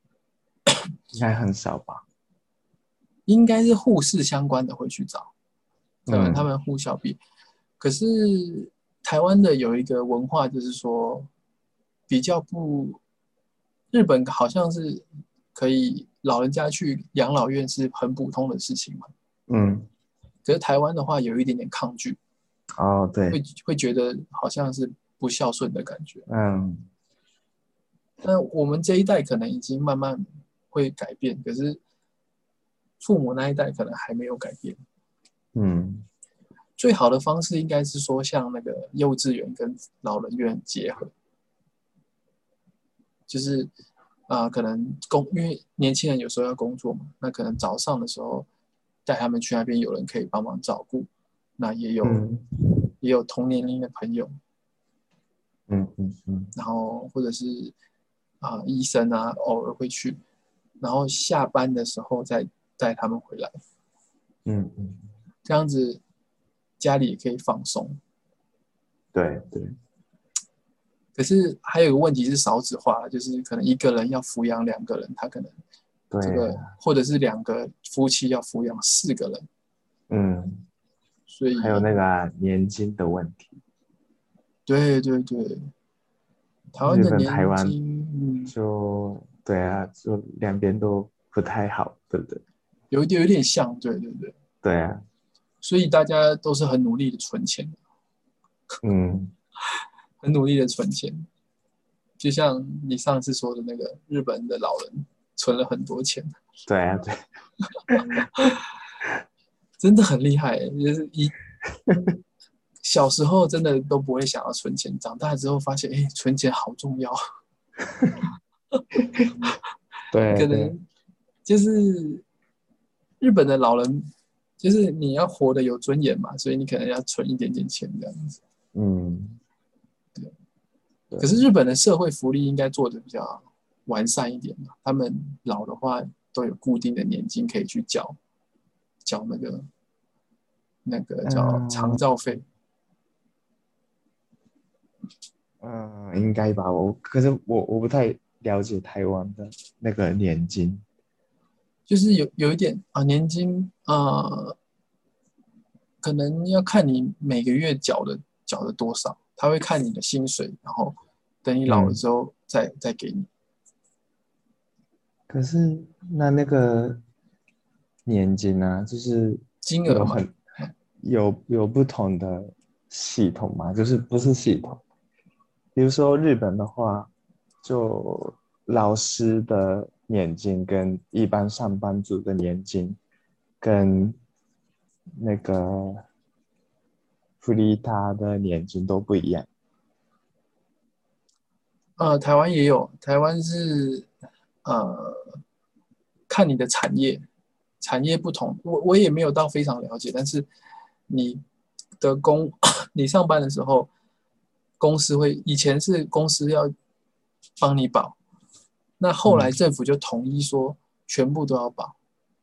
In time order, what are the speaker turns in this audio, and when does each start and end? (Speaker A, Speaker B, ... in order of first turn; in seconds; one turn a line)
Speaker A: 1.1-2.0
Speaker B: 3.3-5.3
Speaker A: 6.0-6.5
Speaker B: 6.1-7.2
Speaker B: 7.8-11.3
Speaker B: 12.1-13.0
Speaker B: 13.9-19.1
Speaker A: 19.5-19.9
Speaker B: 20.4-22.2
Speaker A: 22.8-23.4
Speaker B: 23.3-26.2
Speaker A: 26.3-26.9
Speaker B: 28.2-31.8
Speaker B: 33.0-34.8
Speaker A: 35.5-36.1
Speaker B: 36.8-41.1
Speaker B: 43.3-43.7
Speaker B: 44.3-48.5
Speaker B: 49.0-52.2
Speaker A: 52.0-52.9
Speaker B: 53.0-54.3
Speaker A: 55.7-56.5
Speaker B: 56.5-57.7
Speaker B: 58.4-60.2
Speaker B: 60.8-63.5
Speaker A: 64.5-65.1
Speaker B: 65.4-66.0
Speaker B: 66.8-68.0
Speaker A: 69.1-69.7
Speaker B: 71.2-75.5
Speaker A: 76.1-76.7
Speaker B: 76.2-79.5
Speaker A: 80.1-80.7
Speaker B: 81.3-82.0
Speaker A: 81.5-83.6
Speaker B: 84.7-85.7
Speaker B: 86.7-88.5
Speaker A: 86.8-87.8
Speaker A: 88.5-92.4
Speaker B: 92.9-94.3
Speaker A: 94.6-95.0
Speaker B: 95.6-97.8
Speaker A: 98.8-99.3
Speaker B: 100.2-101.3
Speaker B: 102.2-106.3
Speaker A: 106.7-107.2
Speaker B: 107.8-108.6
Speaker B: 109.8-111.4
Speaker B: 112.8-117.2
Speaker B: 118.8-119.5
Speaker A: 120.1-120.7
Speaker B: 120.3-120.8
Speaker B: 121.5-122.2
Speaker B: 123.2-124.1
Speaker B: 124.6-128.4
Speaker A: 128.7-129.4
Speaker A: 131.1-131.4
Speaker B: 131.2-138.2
Speaker B: 139.1-139.7
Speaker B: 140.8-142.4
Speaker A: 141.2-142.0
Speaker A: 145.6-150.8
Speaker B: 151.9-154.6
Speaker B: 156.0-163.3
Speaker A: 161.7-162.0
Speaker A: 165.3-167.0
Speaker A: 168.1-170.3
Speaker B: 169.6-170.2
Speaker A: 171.0-174.8
Speaker A: 175.7-177.1
Speaker A: 177.6-183.0
Speaker A: 183.6-184.2
Speaker A: 185.2-186.0
Speaker A: 187.4-189.5
Speaker B: 192.0-194.1
Speaker B: 194.6-195.4
Speaker B: 196.3-197.2
Speaker B: 197.8-200.5
Speaker B: 201.1-201.4
Speaker B: 202.0-203.9
Speaker B: 204.8-206.7
Speaker B: 207.6-208.2
Speaker B: 209.0-211.9
Speaker A: 209.3-209.5